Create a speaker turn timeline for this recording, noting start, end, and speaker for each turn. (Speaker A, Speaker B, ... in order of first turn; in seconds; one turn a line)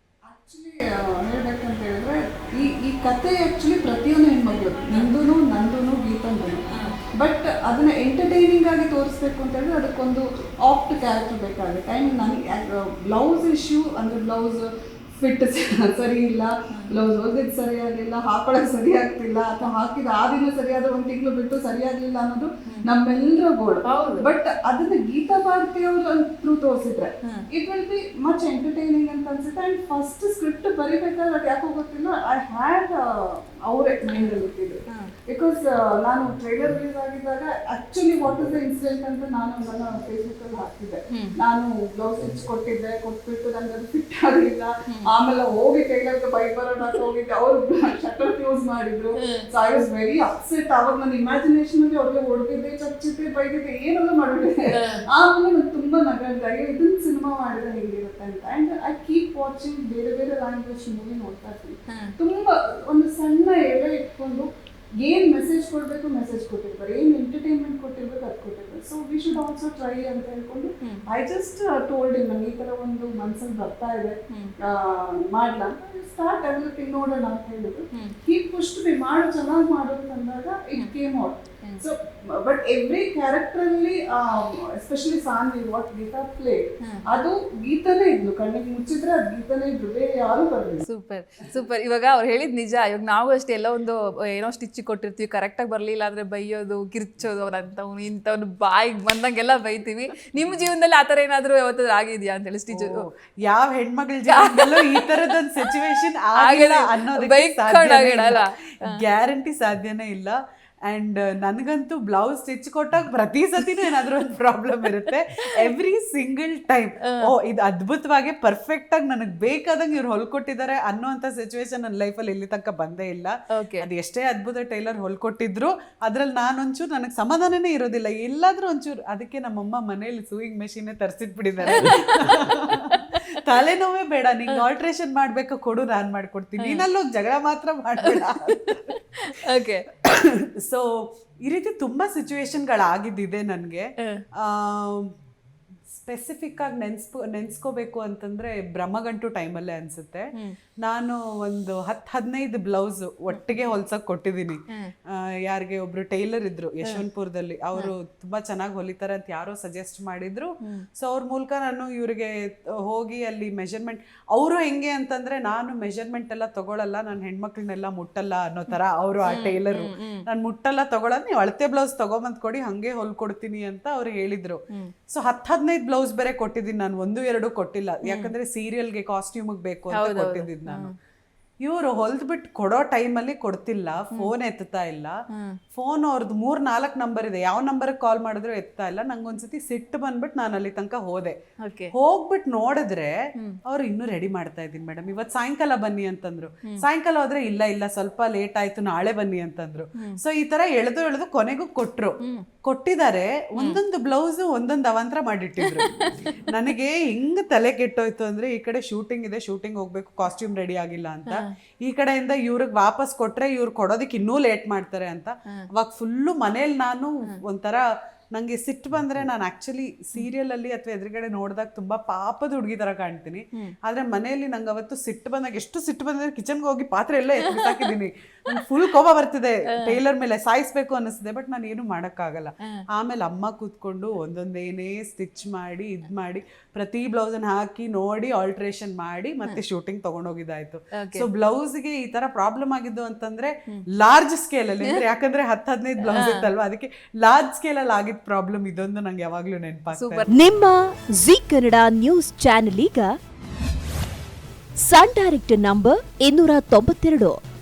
Speaker A: 0.3-64.5
Speaker B: 6.7-7.0
Speaker B: 23.9-24.3
Speaker B: 34.1-34.4
Speaker B: 41.1-41.4
Speaker B: 49.2-49.5
Speaker B: 54.7-55.1
Speaker B: 61.9-62.2
Speaker A: 65.0-90.9
Speaker B: 86.8-87.1
Speaker B: 90.8-103.0
Speaker C: 102.7-138.9
Speaker B: 104.3-105.8
Speaker B: 106.4-109.0
Speaker B: 123.5-123.9
Speaker B: 131.7-133.4
Speaker B: 136.6-136.8
Speaker B: 138.0-139.9
Speaker C: 140.0-145.1
Speaker C: 145.9-150.3
Speaker C: 150.8-180.9
Speaker B: 169.3-170.2
Speaker B: 178.1-178.3
Speaker B: 179.9-180.9
Speaker C: 181.6-185.2
Speaker B: 185.3-185.6
Speaker C: 185.7-191.4
Speaker B: 191.6-191.9
Speaker C: 191.9-205.9
Speaker B: 205.6-206.3
Speaker C: 206.5-250.4
Speaker B: 227.4-227.9
Speaker B: 241.0-241.3
Speaker B: 246.0-246.5
Speaker B: 249.9-250.3
Speaker D: 250.3-253.1
Speaker D: 254.8-257.4